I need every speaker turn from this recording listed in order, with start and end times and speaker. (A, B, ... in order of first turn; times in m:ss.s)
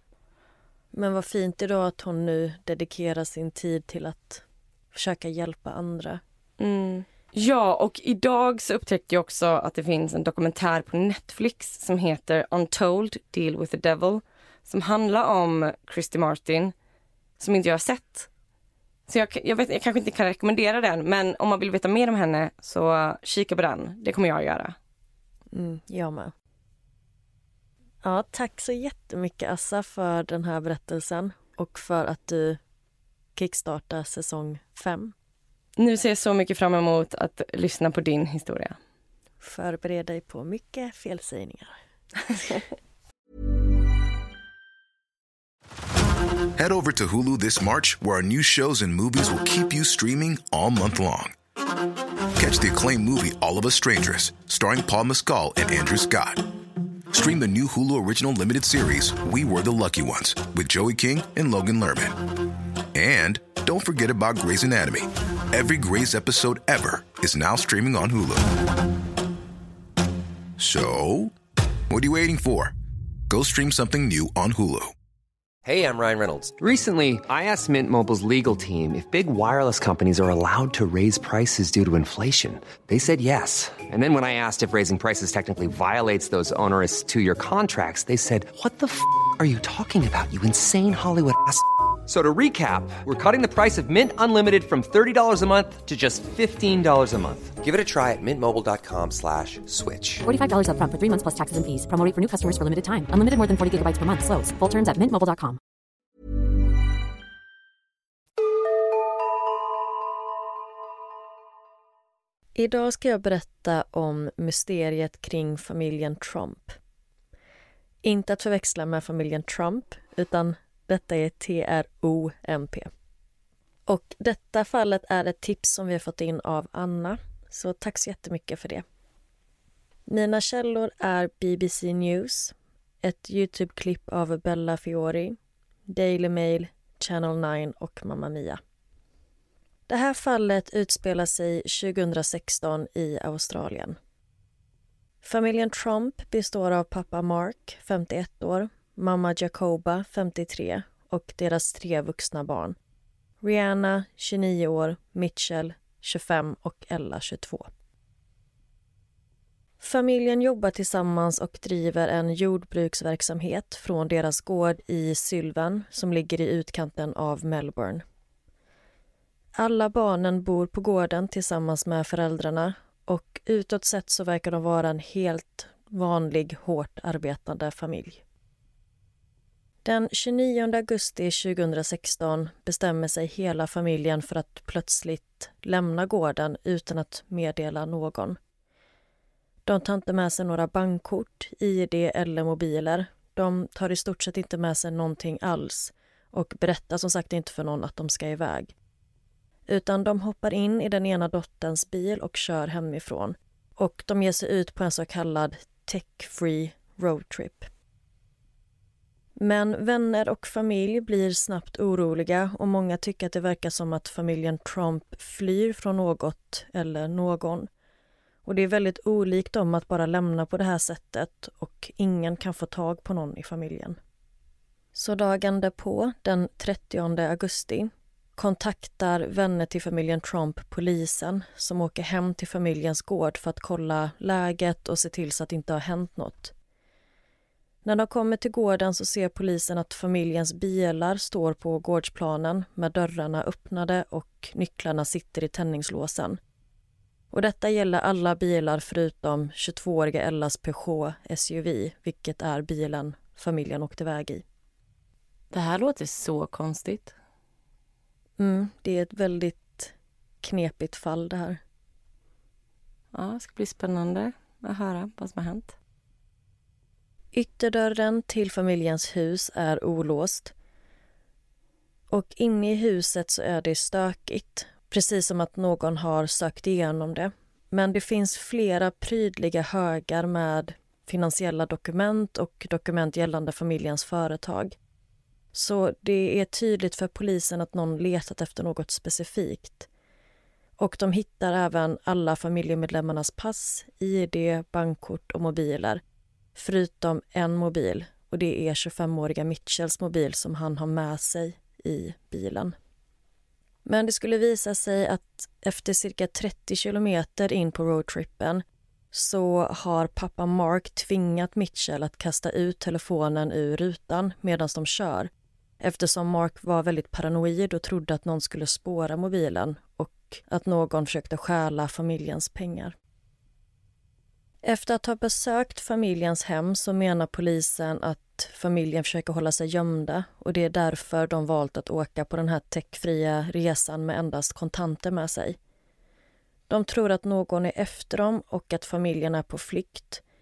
0:00.9-0:06.2 A
0:06.6-0:16.7 B
0:17.4-0:18.3 B
0:19.1-0:24.8 B
0:25.5-0:26.3 A
0:28.0-0:32.6 A
0:33.4-0:35.1 A
0:35.8-0:38.8 B
0:39.4-0:41.8 A
0:46.6-0:51.4 C
0:52.4-0:56.6 C
0:57.1-1:08.8 C
1:10.6-1:11.4 C
1:11.9-1:12.7 C
1:13.3-1:14.9 C
1:15.6-1:40.2 D
1:40.2-1:45.6 E
1:52.6-1:56.8 A
1:58.0-2:02.9 A
2:03.9-2:08.8 A
2:10.1-2:18.6 A
2:19.9-2:24.0 A
2:25.2-2:32.8 A
2:33.4-2:37.7 A
2:39.8-2:48.0 A
2:49.6-2:58.2 A
2:59.8-3:08.4 A
3:09.7-3:18.7 A
3:19.7-3:27.7 A
3:29.4-3:37.7 A
3:38.5-3:44.0 A
3:44.9-3:56.5 A
3:57.8-4:06.4 A
4:07.3-4:14.4 A
4:15.5-4:17.1 B
4:18.4-4:21.6 A
4:23.1-4:25.8 B
4:27.3-4:30.5 A
4:32.1-4:44.8 A
4:45.5-4:49.9 A
4:50.8-4:56.0 A
4:56.6-5:02.8 A
5:03.8-5:23.0 A
5:24.6-5:35.6 A
5:36.7-5:40.2 A